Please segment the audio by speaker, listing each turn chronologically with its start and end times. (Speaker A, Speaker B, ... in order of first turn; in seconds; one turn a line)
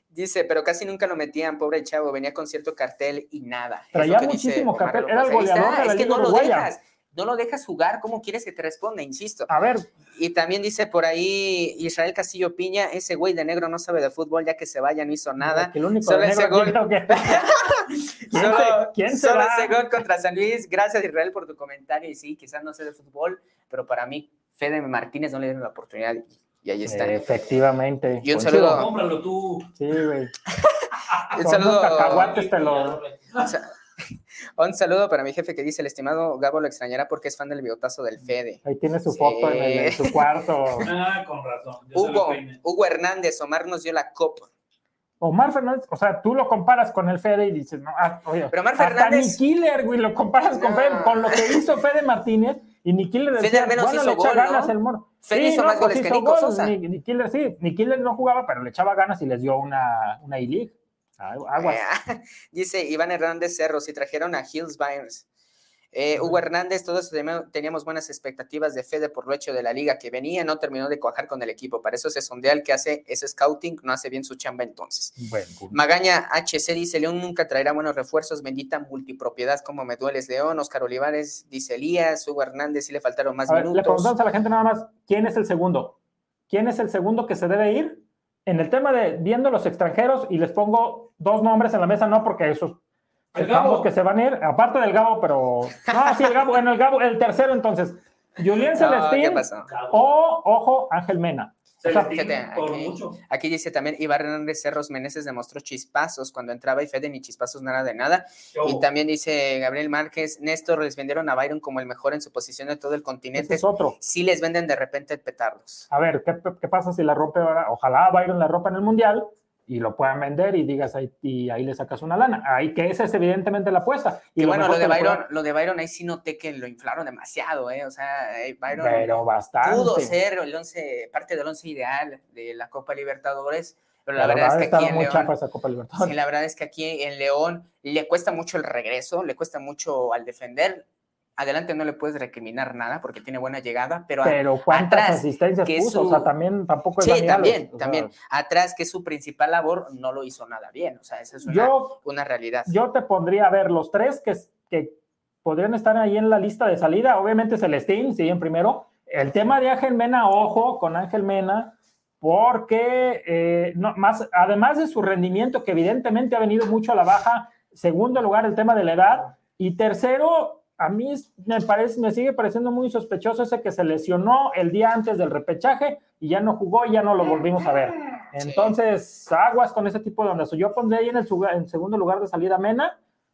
Speaker A: 0.1-9.5
Speaker B: 3.9-6.7
Speaker B: 9.5-9.9
Speaker A: 10.1-27.2
Speaker B: 15.4-17.5
Speaker B: 18.3-19.8
Speaker B: 26.9-28.9
Speaker A: 28.2-28.9
Speaker C: 28.6-29.7
Speaker B: 29.8-30.3
Speaker A: 30.6-32.3
Speaker C: 31.1-31.3
Speaker B: 31.4-33.0
Speaker C: 32.0-33.5
Speaker A: 33.4-40.2
Speaker B: 38.6-40.9
Speaker C: 40.8-42.6
Speaker A: 41.9-44.5
Speaker B: 45.2-61.8
Speaker A: 48.5-49.4
Speaker A: 50.5-51.6
Speaker A: 53.4-54.7
Speaker A: 55.2-56.8
Speaker A: 61.6-65.2
Speaker A: 65.9-75.2
Speaker B: 75.2-75.8
Speaker A: 75.7-84.1
Speaker B: 83.5-86.0
Speaker B: 86.5-92.8
Speaker B: 93.3-102.1
Speaker C: 93.3-93.9
Speaker A: 95.9-96.3
Speaker A: 98.8-99.7
Speaker C: 99.7-100.0
Speaker C: 101.8-103.2
Speaker A: 102.0-115.9
Speaker C: 108.5-108.8
Speaker B: 113.4-114.0
Speaker B: 115.9-125.2
Speaker A: 124.4-135.3
Speaker B: 128.7-130.1
Speaker B: 134.2-136.1
Speaker A: 136.0-140.8
Speaker A: 141.4-146.3
Speaker B: 144.2-148.1
Speaker A: 147.0-152.8
Speaker B: 151.5-152.0
Speaker B: 152.7-183.0
Speaker A: 178.4-178.8